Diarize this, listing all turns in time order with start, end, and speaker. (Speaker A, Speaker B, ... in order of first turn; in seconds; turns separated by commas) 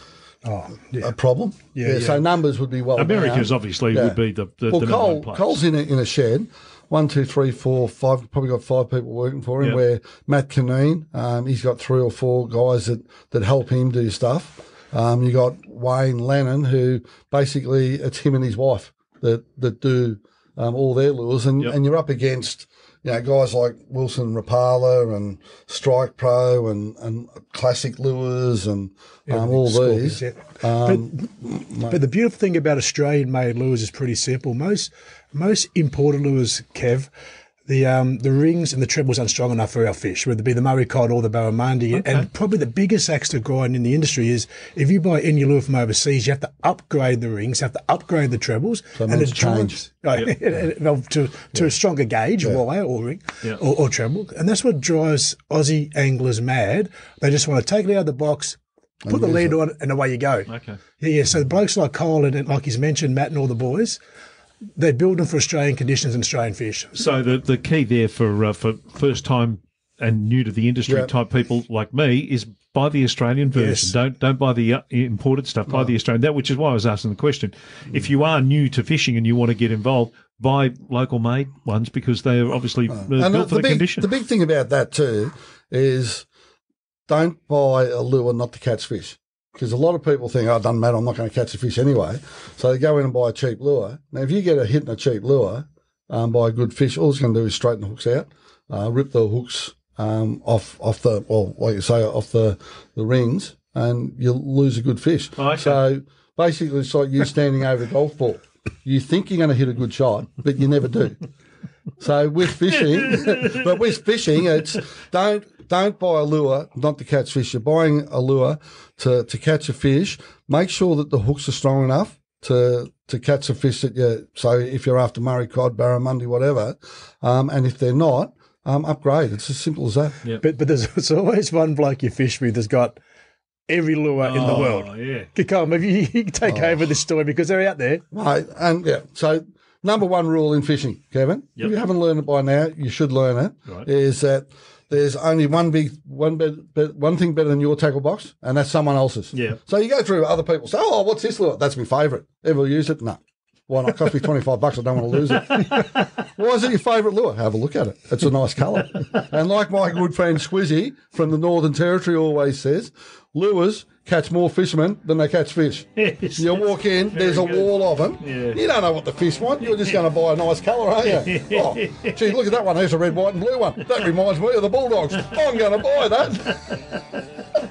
Speaker A: 0.4-1.1, Speaker B: 1.0-4.2, Speaker A: 1.7-2.2, Speaker C: 3.0-5.6, Speaker B: 4.7-32.0, Speaker A: 29.3-31.1, Speaker A: 31.9-37.1, Speaker A: 37.6-64.0, Speaker C: 41.9-42.3, Speaker B: 49.0-49.8, Speaker B: 59.0-59.6, Speaker C: 60.5-60.8, Speaker A: 64.8-66.9, Speaker C: 66.9-84.1, Speaker A: 73.5-73.9, Speaker B: 82.9-86.2, Speaker B: 87.1-111.2, Speaker C: 105.4-105.8, Speaker B: 112.0-130.2, Speaker C: 113.1-113.6, Speaker A: 130.4-133.0, Speaker A: 133.7-138.0, Speaker C: 134.2-135.3, Speaker B: 134.4-134.7, Speaker B: 136.4-136.8, Speaker B: 138.1-176.9, Speaker C: 149.3-149.6, Speaker C: 166.0-166.6, Speaker C: 167.1-168.6, Speaker C: 171.1-172.2